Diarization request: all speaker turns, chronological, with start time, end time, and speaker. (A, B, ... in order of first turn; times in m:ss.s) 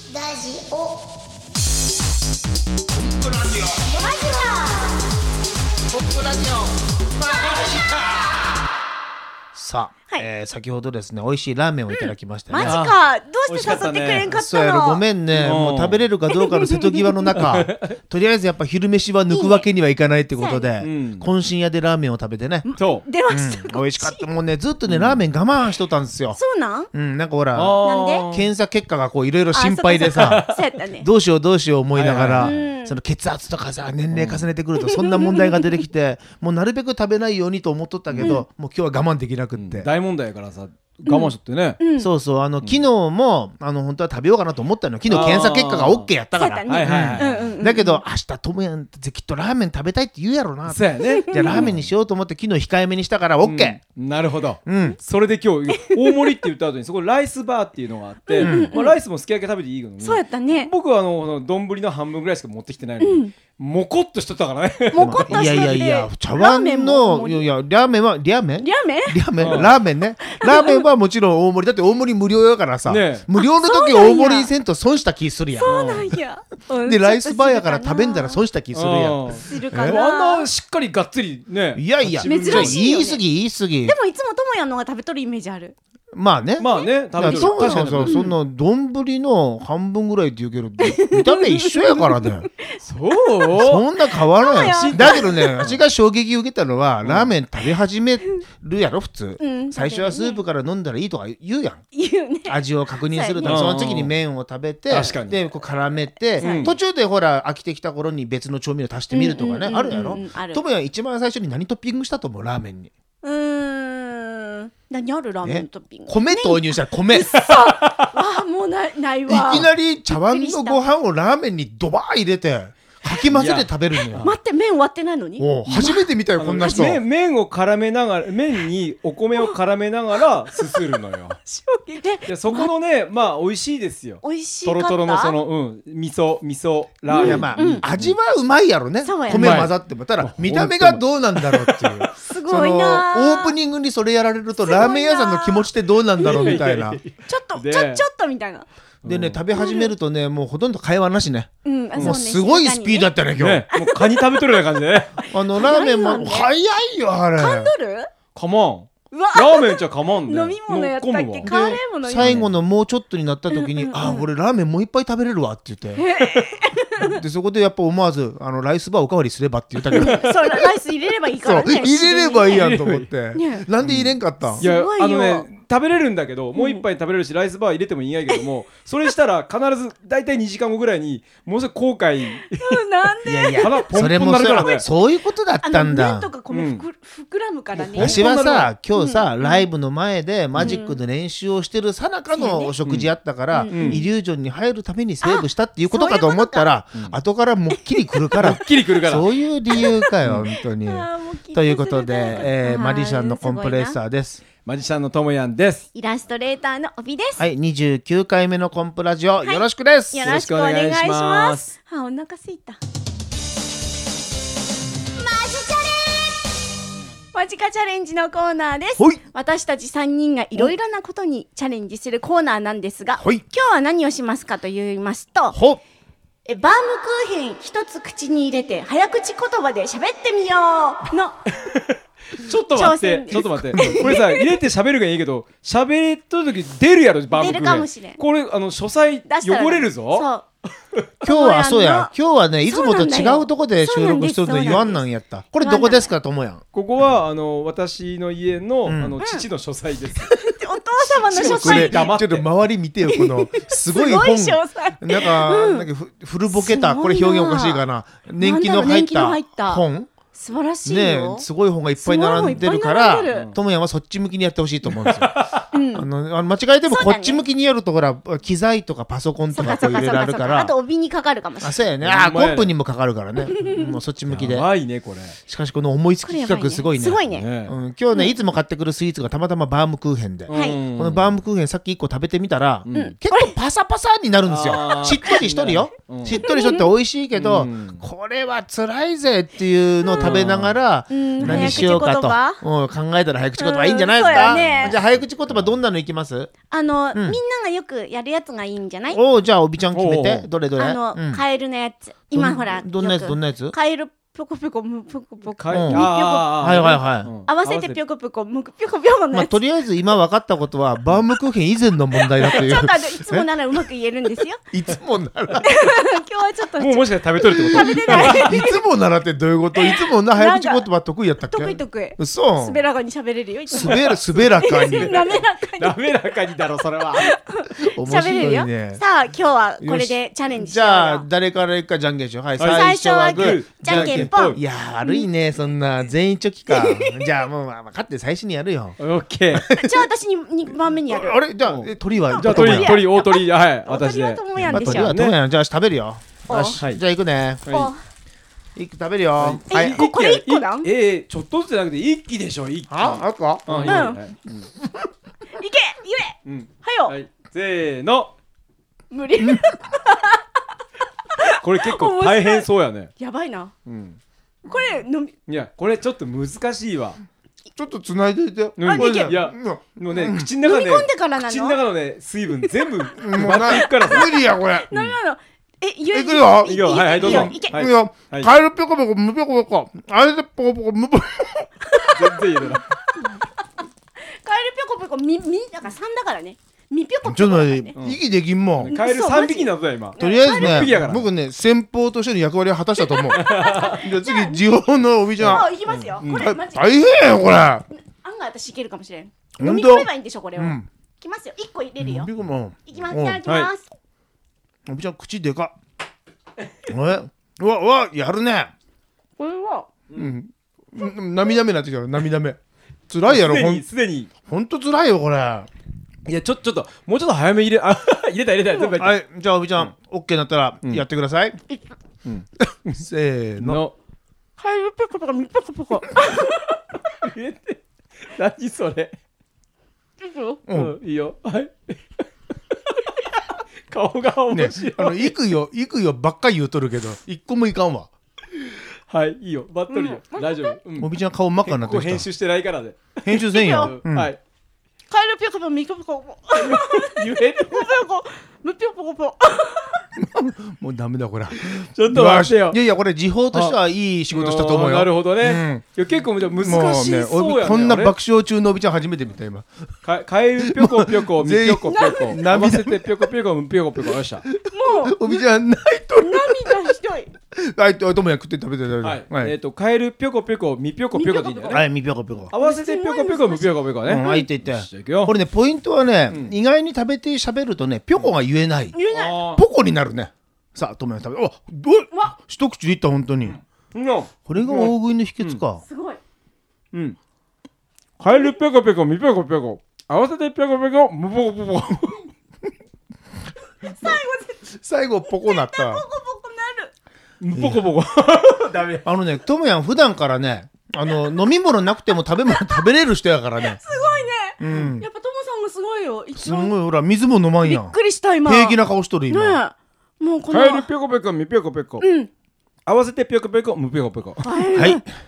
0:00.1-0:00.8 A
0:02.9-0:03.9 B
0:03.8-0:05.0 A
0:05.9-0:06.8 B
0:07.3-0:07.9 B
0:09.5-0:12.8 B
0:12.1-0:15.0 A
0:12.6-0:12.9 C
0:13.5-0:14.3 C
0:14.3-0:22.7 B
0:15.3-0:16.1 C
0:16.3-0:17.1 A
0:17.3-0:18.0 C
0:19.3-0:19.7 A
0:20.4-0:20.7 A
0:20.8-0:21.3 C
0:22.6-0:24.3 A
0:22.8-0:23.0 C
0:23.3-0:26.4 B
0:24.9-0:25.2 C
0:26.4-0:26.9 A
0:26.9-0:39.9 B
0:27.5-0:28.5 C
0:27.8-0:28.3 A
0:29.5-0:31.1 A
0:30.2-0:30.6 C
0:31.9-0:32.6 C
0:32.4-0:33.0 A
0:34.1-0:34.4 C
0:34.8-0:35.8 A
0:38.1-0:38.4 C
0:38.2-0:38.4 A
0:39.6-0:41.8 C
0:41.1-0:42.1 A
0:42.0-0:53.8 B
0:45.0-0:46.1 C
0:46.3-0:48.0 A
0:46.7-0:47.5 C
0:50.7-0:51.8 C
0:51.1-0:51.7 A
0:53.4-1:05.7 C
0:54.6-0:55.0 B
0:55.7-0:56.4 A
0:58.3-0:59.0 A
0:58.4-0:58.8 B
1:00.0-1:00.7 A
1:03.0-1:03.3 A
1:04.9-1:07.5 A
1:05.0-1:16.1 B
1:08.6-1:09.6 A
1:09.4-1:09.7 C
1:10.2-1:10.9 A
1:12.8-1:13.2 C
1:13.4-1:14.5 A
1:15.6-1:18.4 A
1:15.6-1:16.1 C
1:16.8-1:20.0 B
1:18.7-1:22.8 C
1:19.4-1:20.5 A
1:21.7-1:24.0 B
1:22.2-1:23.2 A
1:23.8-1:25.7 A
1:26.1-1:32.5 B
1:26.6-1:28.3 C
1:26.6-1:28.3 A
1:30.8-1:35.6 A
1:32.8-1:33.8 C
1:33.5-1:41.8 B
1:34.5-1:35.8 C
1:37.0-1:37.3 C
1:39.4-1:40.4 A
1:41.9-1:43.6 A
1:42.4-1:52.9 B
1:43.4-1:44.1 C
1:44.9-1:45.4 C
1:46.4-1:46.7 A
1:46.4-1:46.8 C
1:49.1-1:50.6 A
1:53.2-2:00.8 A
1:55.4-1:57.5 B
1:57.3-1:58.1 C
1:59.3-2:04.3 B
2:03.3-2:04.3 C
2:04.1-2:06.1 A
2:05.4-2:07.0 B
2:06.4-2:11.4 C
2:06.6-2:06.9 A
2:10.5-2:10.9 A
2:11.4-2:12.7 A
2:12.3-2:18.1 C
2:14.2-2:15.4 A
2:17.1-2:17.9 A
2:17.2-2:27.0 B
2:19.0-2:19.7 A
2:19.3-2:22.1 C
2:22.1-2:23.6 A
2:24.6-2:28.7 A
2:26.2-2:28.0 C
2:29.0-2:29.4 C
2:29.0-2:33.6 B
2:29.5-2:29.9 A
2:31.6-2:33.1 A
2:31.9-2:32.2 C
2:33.4-2:35.2 C
2:33.7-2:34.6 A
2:35.3-2:37.7 B
2:35.5-2:36.5 A
2:37.4-2:38.1 A
2:38.3-2:41.4 C
2:39.1-2:42.5 A
2:41.4-2:46.1 B
2:42.1-2:42.5 C
2:43.5-2:44.2 A
2:46.0-2:47.2 A
2:47.0-2:50.6 B
2:49.9-2:52.7 A
2:49.9-2:50.4 C
2:51.3-2:54.6 B
2:52.5-2:53.1 C
2:53.3-2:53.6 A
2:53.8-3:02.9 C
2:54.6-2:55.5 A
2:56.5-2:56.8 A
3:02.5-3:03.9 A
3:03.2-3:06.3 B
3:03.5-3:04.9 C
3:04.5-3:04.8 A
3:05.6-3:08.3 A
3:06.5-3:06.8 C
3:07.7-3:08.7 C
3:07.9-3:24.4 B
3:08.9-3:09.6 A
3:10.5-3:10.8 C
3:10.6-3:11.0 A
3:12.3-3:12.7 A
3:12.8-3:13.1 C
3:13.5-3:14.0 A
3:13.7-3:14.0 C
3:15.2-3:16.7 A
3:18.4-3:19.3 C
3:19.7-3:24.0 A
3:24.6-3:25.9 C
3:25.9-3:27.5 A
3:27.4-3:30.3 B
3:29.4-3:32.8 A
3:30.2-3:31.7 C
3:35.2-3:36.4 A
3:37.3-3:45.6 A
3:43.2-3:43.4 B
3:45.5-3:45.8 B
3:46.4-3:51.4 A
3:51.5-4:00.3 C
3:52.7-3:54.6 A
3:53.3-3:54.2 B
3:57.3-3:58.2 A
3:59.3-4:00.4 A
4:01.2-4:02.1 A
4:01.2-4:06.6 B
4:02.7-4:05.0 A
4:05.6-4:06.1 A
4:06.7-4:10.4 C
4:08.8-4:09.2 B
4:10.3-4:12.0 A
4:11.3-4:12.5 C
4:11.3-4:20.1 B
4:13.0-4:15.9 A
4:16.5-4:17.8 A
4:18.4-4:21.4 A
4:20.8-4:25.4 B
4:22.0-4:23.5 A
4:23.3-4:23.6 C
4:24.9-4:25.7 C
4:25.7-4:26.1 A
4:25.9-4:30.7 B
4:26.9-4:27.4 A
4:29.5-4:31.8 A
4:31.6-4:34.6 B
4:32.0-4:32.7 C
4:33.5-4:33.9 A
4:34.3-4:35.4 C
4:35.5-4:56.5 B
4:36.2-4:37.4 A
4:37.3-4:37.7 C
4:40.5-4:41.3 C
4:40.5-4:40.8 A
4:42.8-4:43.2 C
4:42.9-4:43.6 A
4:44.4-4:46.4 C
4:46.4-4:46.9 A
4:47.3-4:48.0 C
4:50.0-4:50.4 A
4:50.2-4:50.8 C
4:51.1-4:52.6 A
4:51.4-4:51.9 C
4:53.6-4:55.0 A
4:56.7-4:59.2 A
4:59.1-5:01.4 B
4:59.9-5:00.5 C
5:00.8-5:09.6 A
5:02.3-5:03.7 B
5:05.6-5:08.0 C
5:05.7-5:07.3 B
5:09.3-5:13.5 B
5:12.1-5:14.6 A
5:14.7-5:15.9 B
5:15.6-5:18.8 A
5:16.8-5:18.5 C
5:17.7-5:22.8 B
5:19.7-5:20.9 A
5:21.5-5:26.0 A
5:23.7-5:25.2 B
5:23.8-5:27.3 C
5:27.2-5:31.2 A
5:27.8-5:29.0 B
5:29.8-5:39.0 B
5:32.6-5:34.6 C
5:32.6-5:35.2 A
5:36.7-5:37.4 A
5:39.0-5:39.7 C
5:39.5-5:40.1 B
5:39.7-5:41.4 A
5:41.1-5:43.0 B
5:41.7-5:45.3 C
5:42.3-5:45.2 A
5:44.6-5:47.6 B
5:46.5-5:46.8 A
5:47.6-5:47.9 C
5:47.7-5:48.0 A
5:48.8-5:50.0 B
5:49.4-5:54.7 C
5:49.7-5:50.9 A
5:52.9-5:54.1 B
5:53.8-5:54.2 A
5:55.5-5:57.1 A
5:56.4-5:58.3 C
5:59.1-6:00.6 A
6:01.3-6:02.7 A
6:01.6-6:03.1 C
6:03.2-6:03.7 A
6:03.8-6:04.2 C
6:04.6-6:05.3 A
6:05.5-6:07.2 C
6:07.8-6:10.5 B
6:08.8-6:14.4 C
6:08.8-6:09.4 A
6:10.6-6:11.8 A
6:13.2-6:14.9 B
6:13.4-6:17.8 A
6:16.1-6:22.0 B
6:16.6-6:18.5 C
6:21.9-6:23.4 A
6:22.1-6:22.9 C
6:24.2-6:27.9 A
6:27.2-6:28.9 B
6:28.8-6:31.3 C
6:28.9-6:30.9 A
6:30.2-6:37.8 B
6:33.0-6:34.6 A
6:33.3-6:34.0 C
6:35.4-6:37.3 A
6:36.2-6:36.5 C
6:38.1-6:42.3 A
6:39.6-6:40.9 B
6:42.0-6:43.4 B
6:42.9-6:43.9 A
6:43.4-6:43.7 C
6:44.9-6:45.7 B
6:46.9-6:48.7 B
6:49.4-6:49.9 A
6:50.1-6:52.6 B
6:53.1-6:53.8 B
6:53.2-6:54.3 C
6:54.5-6:55.7 B
6:56.2-6:59.2 C
6:58.9-7:01.6 B
7:02.2-7:03.0 C
7:02.9-7:03.8 B
7:03.6-7:03.9 C
7:04.6-7:06.8 A
7:07.2-7:09.1 C
7:10.2-7:10.6 A
7:10.7-7:11.0 B
7:10.7-7:15.4 C
7:14.5-7:18.1 B
7:19.1-7:21.1 C
7:19.9-7:20.7 A
7:21.0-7:22.3 B
7:21.6-7:24.4 C
7:23.2-7:24.3 B
7:23.4-7:23.9 A
7:25.1-7:30.0 A
7:26.6-7:27.9 C
7:30.1-7:35.8 B
7:31.8-7:32.8 C
7:33.5-7:33.8 C
7:34.3-7:38.1 C
7:36.6-7:39.7 B
7:40.0-7:44.4 C
7:40.6-7:43.2 B
7:41.9-7:42.4 A
7:44.4-7:47.0 B
7:44.7-7:45.4 A
7:46.2-7:47.3 A
7:47.5-7:49.5 B
7:49.0-7:51.8 C
7:51.1-7:51.8 A
7:51.7-7:52.5 B
7:52.5-7:55.3 C
7:52.5-7:54.4 A
7:54.0-8:03.6 B
7:56.3-7:56.5 C
7:58.9-7:59.4 A
7:59.1-7:59.6 C
8:03.4-8:05.6 C
8:04.5-8:05.8 B
8:05.8-8:06.2 A
8:06.9-8:07.2 C
8:08.2-8:12.3 C
8:13.8-8:14.7 A
8:14.0-8:16.0 B
8:15.3-8:16.9 A
8:17.4-8:19.0 C
8:17.5-8:17.8 B
8:19.0-8:23.8 B
8:22.5-8:22.9 A
8:23.6-8:26.7 A
8:24.6-8:25.1 B
8:26.4-8:29.6 B
8:27.6-8:28.8 A
8:29.3-8:30.9 A
8:30.5-8:32.0 C
8:32.0-8:32.3 A
8:32.8-8:34.5 C
8:34.4-8:35.0 A
8:34.7-8:35.0 B